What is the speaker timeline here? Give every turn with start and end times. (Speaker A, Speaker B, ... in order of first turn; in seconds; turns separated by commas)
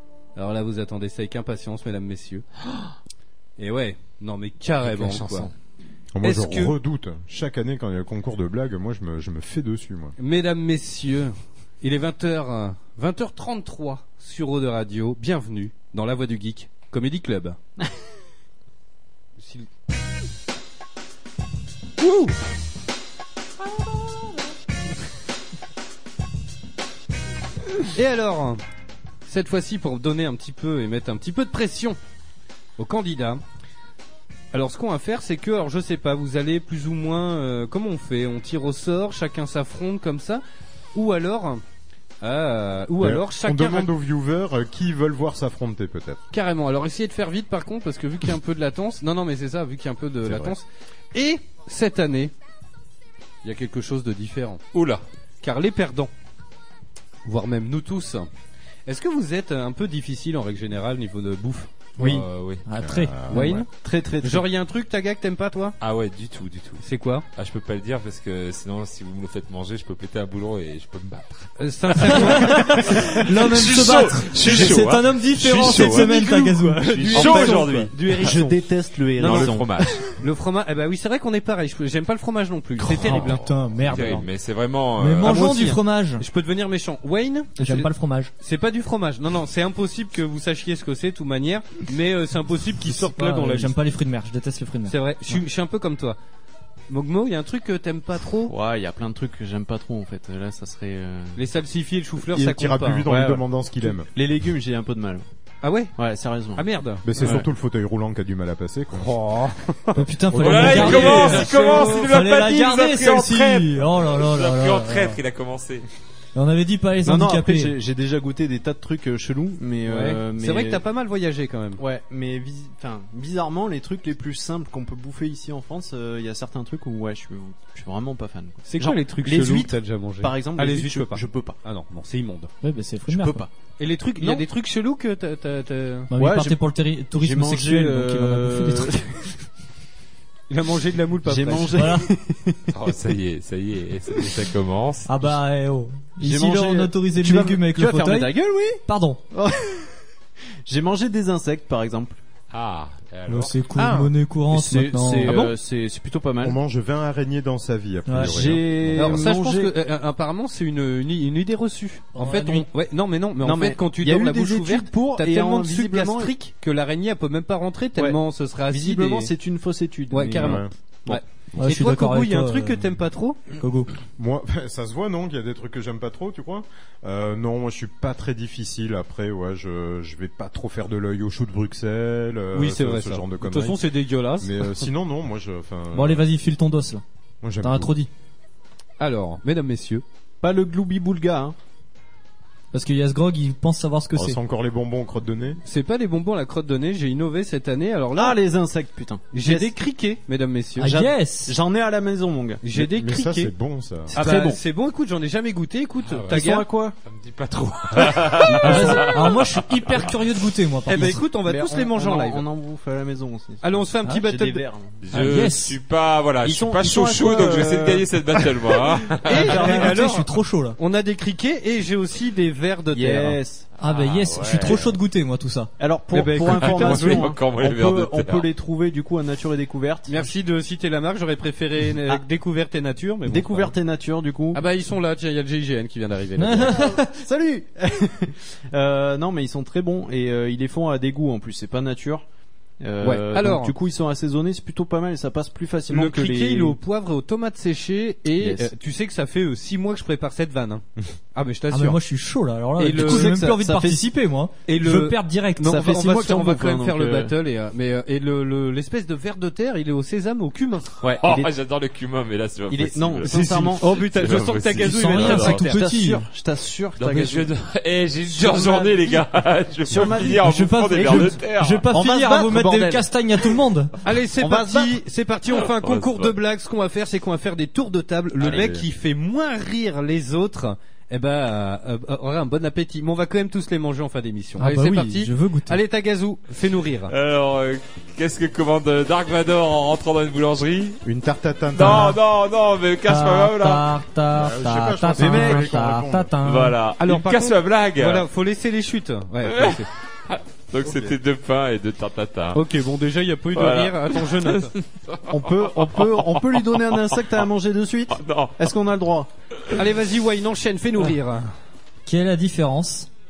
Speaker A: 0.4-2.5, Speaker A: 3.6-5.5, Speaker B: 4.8-5.5, Speaker C: 6.2-10.2, Speaker A: 6.2-6.8, Speaker A: 10.2-17.6, Speaker A: 19.4-19.7, Speaker A: 22.0-22.4, Speaker A: 27.8-28.6, Speaker A: 29.3-32.0, Speaker A: 32.8-33.4, Speaker A: 34.5-40.4, Speaker A: 40.9-41.6, Speaker A: 42.2-43.9, Speaker C: 43.0-46.2, Speaker A: 46.3-52.3, Speaker A: 53.4-54.6, Speaker B: 54.7-55.0, Speaker A: 55.4-56.1, Speaker A: 57.2-58.3, Speaker A: 58.9-62.2, Speaker D: 62.0-62.3, Speaker B: 62.0-62.6, Speaker E: 62.7-63.6, Speaker C: 62.8-63.5, Speaker A: 63.3-63.7, Speaker D: 63.4-64.5, Speaker A: 64.2-65.8, Speaker B: 65.8-76.1, Speaker A: 66.8-67.2, Speaker A: 71.6-73.2, Speaker E: 72.1-77.3, Speaker A: 75.6-78.6, Speaker B: 76.8-78.4, Speaker D: 77.0-80.0, Speaker A: 79.2-79.6, Speaker B: 79.2-80.0, Speaker A: 80.1-83.4, Speaker E: 82.8-84.3, Speaker B: 83.0-85.5, Speaker E: 85.0-86.2, Speaker A: 85.2-87.9, Speaker E: 87.6-88.3, Speaker A: 88.4-93.8, Speaker E: 92.8-95.4, Speaker A: 94.9-96.2, Speaker A: 96.9-98.5, Speaker D: 98.5-101.4, Speaker A: 101.4-103.1, Speaker C: 102.3-104.1, Speaker D: 103.0-105.2, Speaker A: 105.6-106.0, Speaker D: 106.0-106.6, Speaker A: 106.5-107.4, Speaker C: 107.0-109.1, Speaker D: 107.2-107.5, Speaker A: 108.9-112.1, Speaker E: 110.0-115.2, Speaker B: 110.4-115.8, Speaker D: 110.6-111.8, Speaker E: 116.4-117.8, Speaker D: 117.0-120.8, Speaker A: 119.9-121.8, Speaker D: 121.8-131.6, Speaker A: 128.7-132.5, Speaker E: 132.6-133.5, Speaker D: 133.1-133.5, Speaker A: 133.8-136.1, Speaker E: 136.1-139.0, Speaker D: 136.2-136.6, Speaker D: 137.2-139.3, Speaker A: 140.5-141.8, Speaker D: 141.3-142.8, Speaker E: 141.8-142.1, Speaker B: 142.7-145.1, Speaker E: 145.1-149.2, Speaker D: 146.2-148.8, Speaker D: 149.3-149.9, Speaker D: 150.7-152.2, Speaker B: 152.5-153.6, Speaker E: 153.3-155.4, Speaker D: 153.8-156.6, Speaker A: 155.3-155.6, Speaker C: 156.4-159.3, Speaker E: 158.1-158.4, Speaker D: 158.2-159.7, Speaker A: 158.9-169.3, Speaker E: 162.2-162.7, Speaker D: 163.4-166.3, Speaker D: 168.7-171.2, Speaker A: 170.1-173.4, Speaker C: 170.4-170.7, Speaker E: 171.6-172.9, Speaker E: 173.6-173.9, Speaker C: 174.2-183.9, Speaker A: 182.5-184.8, Speaker C: 184.4-186.3, Speaker E: 185.9-187.0, Speaker C: 187.4-187.9, Speaker E: 187.6-188.1, Speaker A: 189.0-190.0, Speaker D: 190.4-191.6, Speaker E: 192.7-194.4, Speaker C: 194.2-195.6, Speaker A: 195.7-198.4, Speaker D: 198.2-199.7, Speaker A: 199.3-200.9, Speaker E: 200.8-201.6, Speaker D: 200.9-202.6, Speaker A: 202.6-203.5, Speaker C: 202.7-204.2, Speaker D: 204.1-204.6, Speaker A: 204.2-206.7, Speaker B: 206.1-206.4, Speaker D: 206.3-206.9, Speaker B: 207.0-209.7, Speaker E: 208.4-211.2, Speaker A: 210.9-212.4, Speaker D: 211.0-215.0, Speaker A: 213.6-214.7, Speaker B: 215.0-219.7, Speaker E: 215.1-215.8, Speaker D: 216.4-218.1, Speaker A: 219.2-223.4, Speaker E: 219.3-220.8, Speaker D: 219.4-219.9, Speaker D: 222.9-223.7, Speaker B: 223.8-224.9, Speaker E: 223.8-225.7, Speaker D: 225.8-230.3, Speaker A: 226.1-227.3, Speaker B: 226.5-228.5, Speaker A: 230.1-233.7, Speaker D: 233.3-234.6, Speaker A: 234.5-236.9, Speaker E: 236.4-237.1, Speaker D: 236.7-242.3, Speaker D: 242.8-246.8, Speaker A: 243.0-243.7, Speaker A: 245.9-252.0, Speaker D: 248.3-248.7, Speaker E: 251.7-255.9, Speaker A: 252.8-253.4, Speaker D: 252.9-254.1, Speaker A: 254.7-261.0, Speaker D: 255.6-257.3, Speaker D: 261.0-261.5, Speaker B: 261.2-265.7, Speaker D: 262.7-264.1, Speaker A: 263.2-265.8, Speaker E: 264.8-266.3, Speaker D: 265.2-267.5, Speaker B: 267.0-271.9, Speaker D: 268.3-269.2, Speaker D: 269.9-273.1, Speaker E: 270.2-273.9, Speaker A: 274.0-287.1, Speaker D: 274.4-274.9, Speaker B: 275.7-276.4, Speaker B: 278.4-278.8, Speaker E: 284.6-285.8, Speaker B: 287.1-291.0, Speaker C: 291.1-292.2, Speaker B: 291.7-294.0, Speaker E: 291.8-292.2, Speaker E: 293.1-296.8, Speaker C: 294.3-296.3, Speaker D: 295.2-295.6, Speaker B: 296.4-298.3, Speaker A: 297.0-299.9, Speaker B: 299.4-302.6, Speaker A: 302.5-304.7, Speaker B: 303.6-307.2, Speaker D: 305.3-309.3, Speaker B: 308.1-308.7, Speaker A: 309.7-311.5, Speaker E: 312.1-313.1